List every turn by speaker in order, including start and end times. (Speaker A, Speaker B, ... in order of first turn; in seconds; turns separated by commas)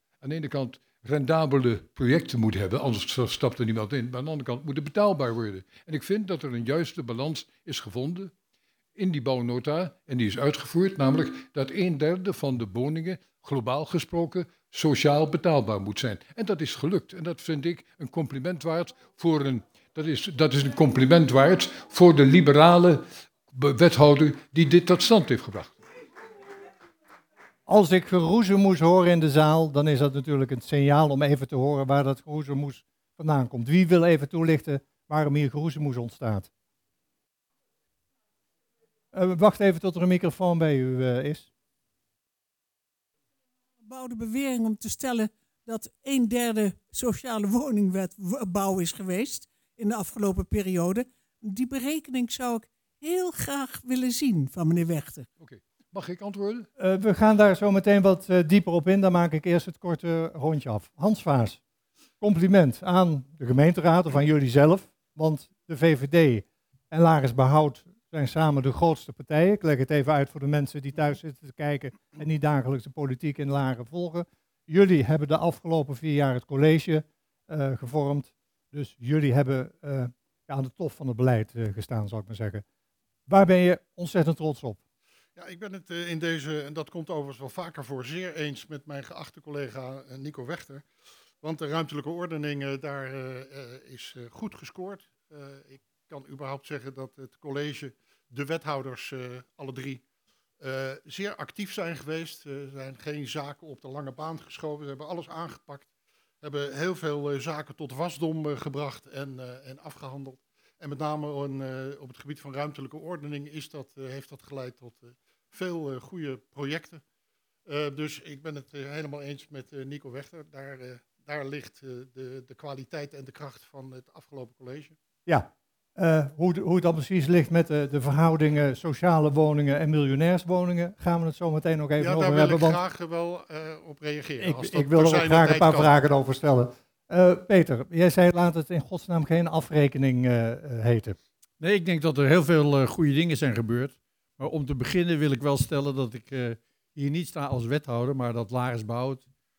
Speaker A: 0.2-8.3, Speaker A: 8.9-25.8, Speaker B: 27.7-36.5, Speaker B: 39.1-41.5, Speaker C: 43.8-55.3, Speaker A: 55.4-56.7, Speaker B: 56.8-61.6, Speaker B: 62.2-82.6, Speaker B: 83.3-84.8, Speaker D: 85.3-90.8, Speaker D: 91.4-100.0, Speaker D: 100.6-105.9, Speaker D: 106.4-117.0, Speaker D: 117.7-125.0, Speaker B: 125.2-132.8, Speaker D: 132.0-135.9, Speaker B: 134.4-141.2, Speaker E: 141.6-149.2